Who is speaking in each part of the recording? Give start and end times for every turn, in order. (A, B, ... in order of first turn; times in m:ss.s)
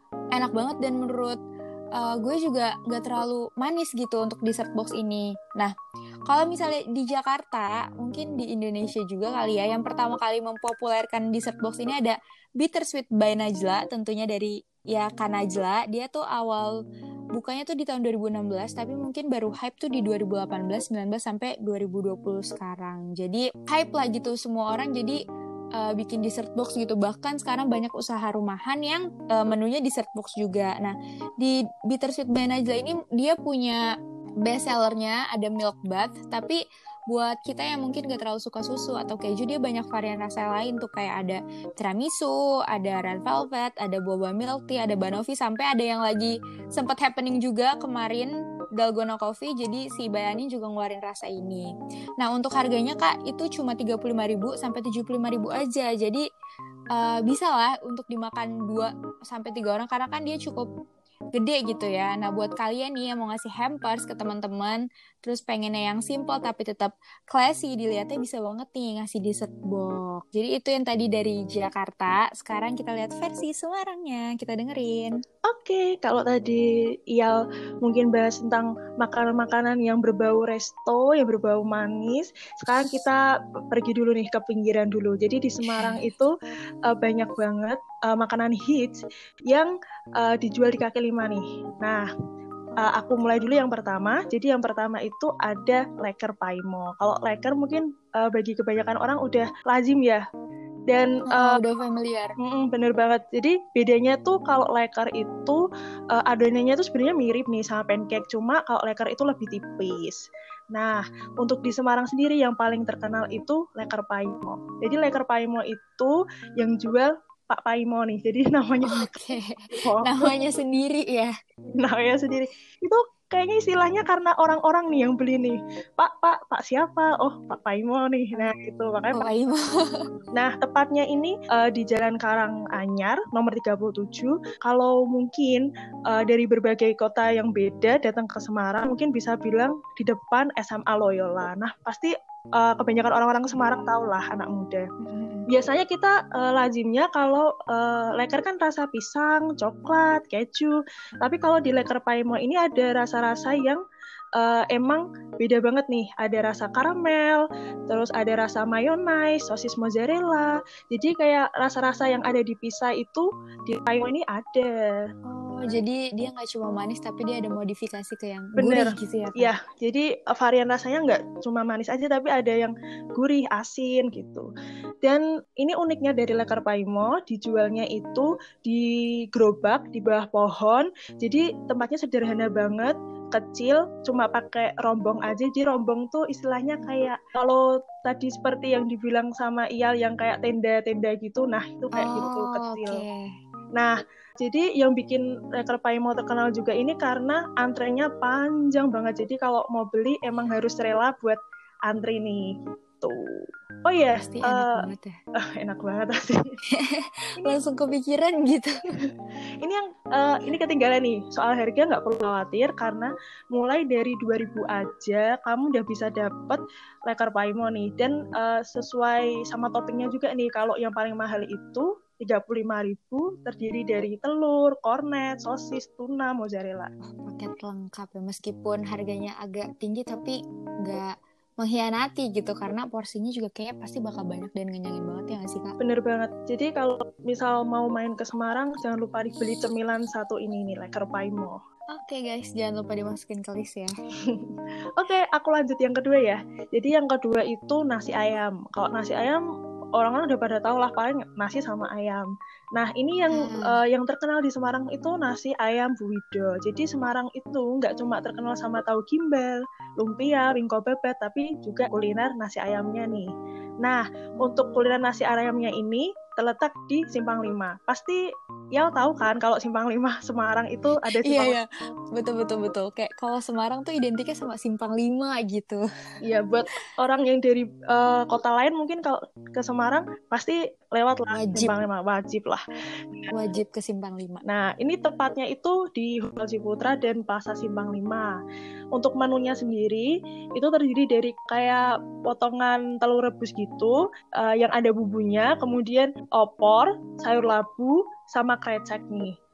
0:00.3-0:01.4 A
0:01.9-0:05.7 A
0:06.3-0:16.7 A
0:17.3-0:25.2 A
0:25.8-0:33.8 A
0:34.4-0:56.2 A
0:56.9-1:00.7 A
1:01.3-1:15.2 A
1:15.4-1:26.3 B
1:25.6-1:26.1 A
1:26.8-1:32.0 B
1:32.8-1:40.2 B
1:40.9-1:41.6 B
1:41.3-1:42.3 A
1:42.4-1:59.2 B
1:58.8-2:01.3 A
1:59.8-2:00.3 B
2:01.7-2:09.2 B
2:09.1-2:10.0 A
2:10.3-2:24.9 B
2:25.0-2:25.4 A
2:25.5-2:33.8 B
2:34.4-2:45.0 B
2:45.3-2:49.5 A
2:48.6-2:54.5 B
2:55.0-3:13.0 B
3:11.9-3:13.2 A
3:13.8-3:24.9 B
3:24.2-3:25.1 A
3:25.4-3:26.4 B
3:26.7-3:28.8 A
3:29.6-3:46.9 B
3:47.1-3:55.7 A
3:55.8-4:01.6 B
4:01.9-4:03.9 A
4:05.0-4:09.4 B
4:10.0-4:23.3 B
4:13.3-4:13.8 A
4:23.8-4:28.2 B
4:28.7-4:31.6 B
4:31.2-4:35.8 A
4:36.2-4:42.6 B
4:41.3-4:41.7 A
4:43.3-4:44.4 A
4:44.4-4:48.4 B
4:48.9-4:59.3 B